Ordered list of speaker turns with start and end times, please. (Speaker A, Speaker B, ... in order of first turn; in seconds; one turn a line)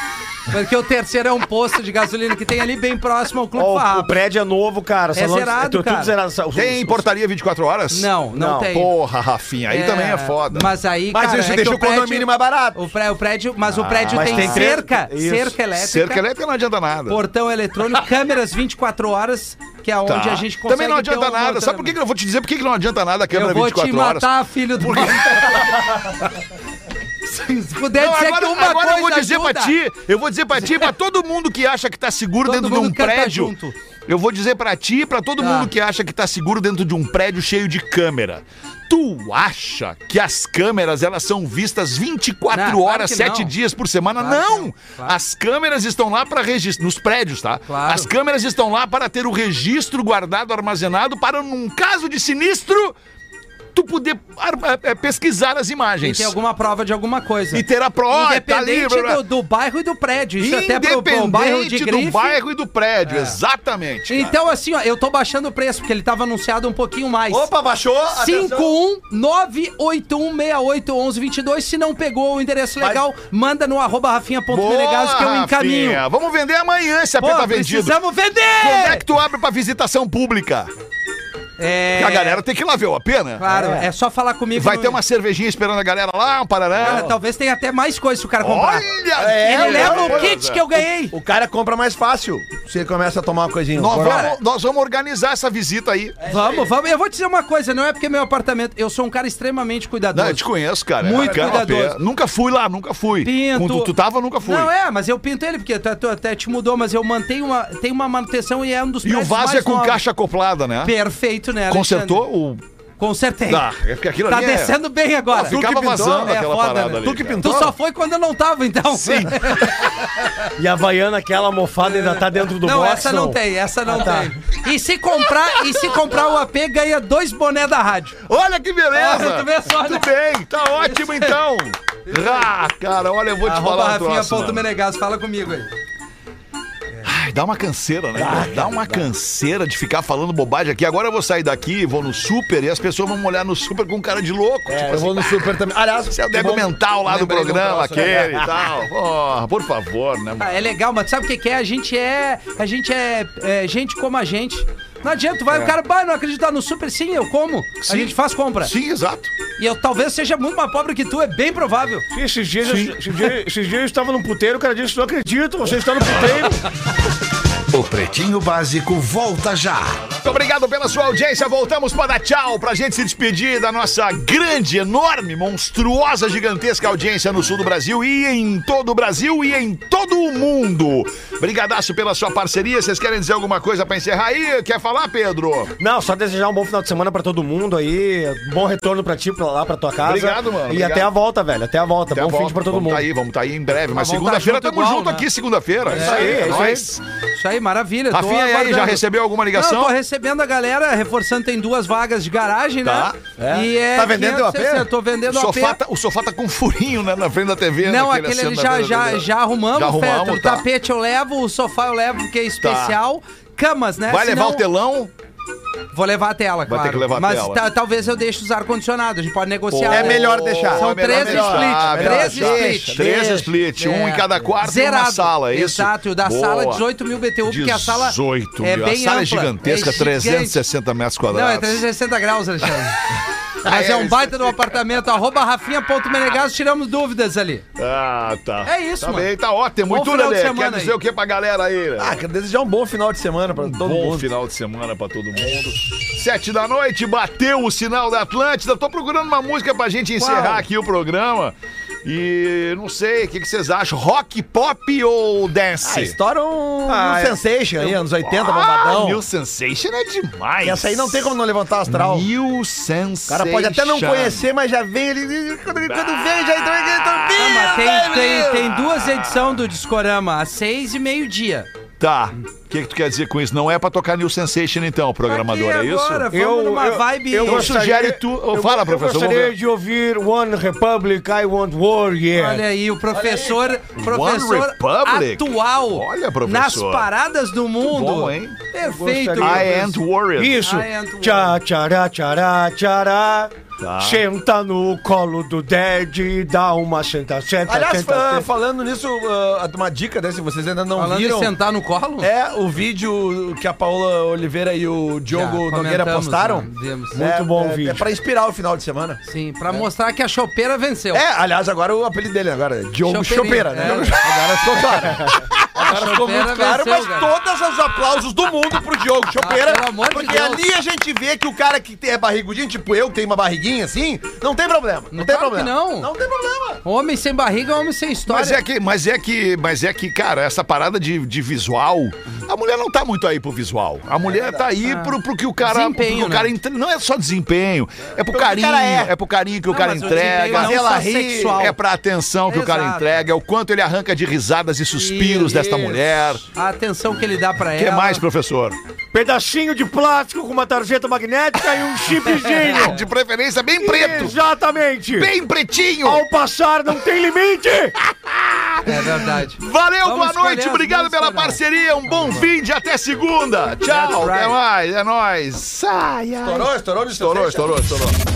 Speaker A: 0.5-4.2
Speaker B: 3.5-7.0
Speaker A: 5.1-6.1
Speaker C: 6.5-10.7
Speaker A: 7.9-8.9
Speaker B: 8.3-8.7
Speaker A: 9.7-16.2
Speaker D: 11.1-12.8
Speaker C: 13.7-14.7
Speaker B: 14.1-15.6
Speaker C: 15.8-17.2
Speaker A: 17.1-21.9
Speaker C: 20.1-26.0
Speaker A: 23.3-25.8
Speaker A: 27.2-29.7
Speaker C: 27.9-33.5
Speaker A: 32.4-33.7
Speaker C: 34.1-53.0
Speaker A: 35.4-35.7
Speaker A: 42.5-43.5
Speaker A: 44.2-45.1
Speaker A: 47.7-48.1
Speaker C: 53.7-56.3
Speaker A: 56.0-62.4
Speaker C: 57.5-59.2
Speaker C: 60.4-64.3
Speaker A: 63.0-63.4
Speaker A: 64.1-67.5
Speaker D: 67.3-68.7
Speaker A: 68.1-76.0
Speaker C: 74.5-78.0
Speaker A: 77.2-79.0
Speaker C: 78.6-80.7
Speaker A: 81.6-82.4
Speaker C: 82.0-83.4
Speaker A: 83.4-85.0
Speaker D: 83.5-83.9
Speaker C: 84.5-87.1
Speaker A: 86.7-88.9
Speaker D: 86.8-87.1
Speaker C: 88.4-90.6
Speaker D: 89.2-94.3
Speaker A: 89.4-91.1
Speaker C: 93.7-96.2
Speaker A: 94.0-94.4
Speaker D: 96.2-96.7
Speaker A: 96.2-100.4
Speaker C: 100.1-104.7
Speaker A: 101.0-102.0
Speaker D: 101.1-101.7
Speaker A: 103.2-103.9
Speaker A: 104.4-110.0
Speaker C: 109.0-110.9
Speaker A: 110.8-112.2
Speaker C: 111.7-112.6
Speaker A: 113.0-113.6
Speaker C: 113.5-114.8
Speaker A: 114.3-120.5
Speaker D: 115.3-116.3
Speaker C: 115.3-117.7
Speaker D: 117.0-117.7
Speaker C: 118.9-119.9
Speaker B: 120.6-124.3
Speaker A: 121.8-128.2
Speaker C: 128.2-134.6
Speaker A: 128.9-130.1
Speaker A: 130.8-131.4
Speaker A: 132.1-132.5
Speaker A: 133.4-135.7
Speaker C: 137.0-150.6
Speaker D: 138.1-139.1
Speaker D: 144.7-148.7
Speaker A: 150.4-158.7
Speaker C: 157.8-159.3
Speaker A: 159.6-162.1
Speaker B: 162.1-166.6
Speaker C: 162.6-163.3
Speaker E: 167.7-170.1
Speaker C: 170.2-185.7
Speaker B: 185.8-193.1
Speaker C: 190.0-191.1
Speaker C: 192.1-197.0
Speaker A: 193.9-195.3
Speaker D: 195.9-196.7
Speaker A: 195.9-196.5
Speaker B: 195.9-196.9
Speaker A: 197.3-205.8
Speaker C: 198.1-199.9
Speaker C: 202.8-203.2
Speaker D: 203.4-204.9
Speaker C: 205.3-210.6
Speaker A: 207.8-214.6
Speaker C: 212.6-213.0
Speaker C: 214.1-215.1
Speaker A: 215.9-223.0
Speaker C: 216.7-217.6
Speaker C: 219.7-226.8
Speaker D: 219.9-223.5
Speaker A: 223.8-230.6
Speaker C: 227.4-231.8
Speaker A: 231.3-233.0
Speaker D: 233.6-234.3
Speaker A: 233.6-237.6
Speaker C: 237.8-242.2
Speaker A: 238.6-239.3
Speaker A: 239.9-240.9
Speaker D: 242.0-244.3
Speaker C: 243.6-256.1
Speaker D: 245.3-245.7
Speaker A: 250.2-250.6
Speaker D: 255.8-259.2
Speaker B: 256.9-257.4
Speaker C: 257.0-257.2
Speaker C: 257.8-261.3
Speaker D: 260.6-262.3
Speaker C: 261.9-264.4
Speaker D: 263.3-268.6
Speaker C: 265.7-269.5
Speaker A: 267.4-271.7
Speaker C: 272.0-276.3
Speaker A: 275.2-277.8
Speaker B: 276.3-282.6
Speaker C: 277.4-279.5
Speaker A: 282.3-290.0
Speaker D: 283.1-283.8
Speaker C: 284.0-287.1
Speaker C: 287.8-288.6
Speaker B: 288.8-298.5
Speaker C: 289.4-290.6
Speaker A: 290.5-291.5
Speaker C: 293.8-294.2
Speaker D: 297.6-301.5
Speaker A: 300.9-302.3
Speaker D: 302.2-309.9
Speaker A: 305.3-307.2
Speaker B: 307.1-308.1
Speaker A: 309.2-311.2
Speaker D: 311.1-326.8
Speaker A: 313.0-314.2
Speaker A: 315.8-317.3
Speaker A: 319.4-320.6
Speaker A: 325.1-326.1
Speaker A: 326.8-328.6
Speaker C: 328.3-340.7
Speaker D: 334.2-334.7
Speaker A: 334.8-336.5
Speaker D: 338.2-339.1
Speaker A: 339.7-341.8
Speaker D: 339.7-341.7
Speaker C: 341.6-346.4
Speaker A: 342.5-343.1
Speaker A: 345.0-348.2
Speaker C: 347.8-348.8
Speaker B: 349.1-353.0
Speaker A: 352.4-352.9
Speaker C: 352.5-354.4
Speaker B: 353.8-355.3
Speaker C: 355.1-356.2
Speaker B: 356.0-358.0
Speaker C: 358.1-368.1
Speaker A: 358.8-362.5
Speaker A: 363.8-364.6
Speaker D: 366.4-367.9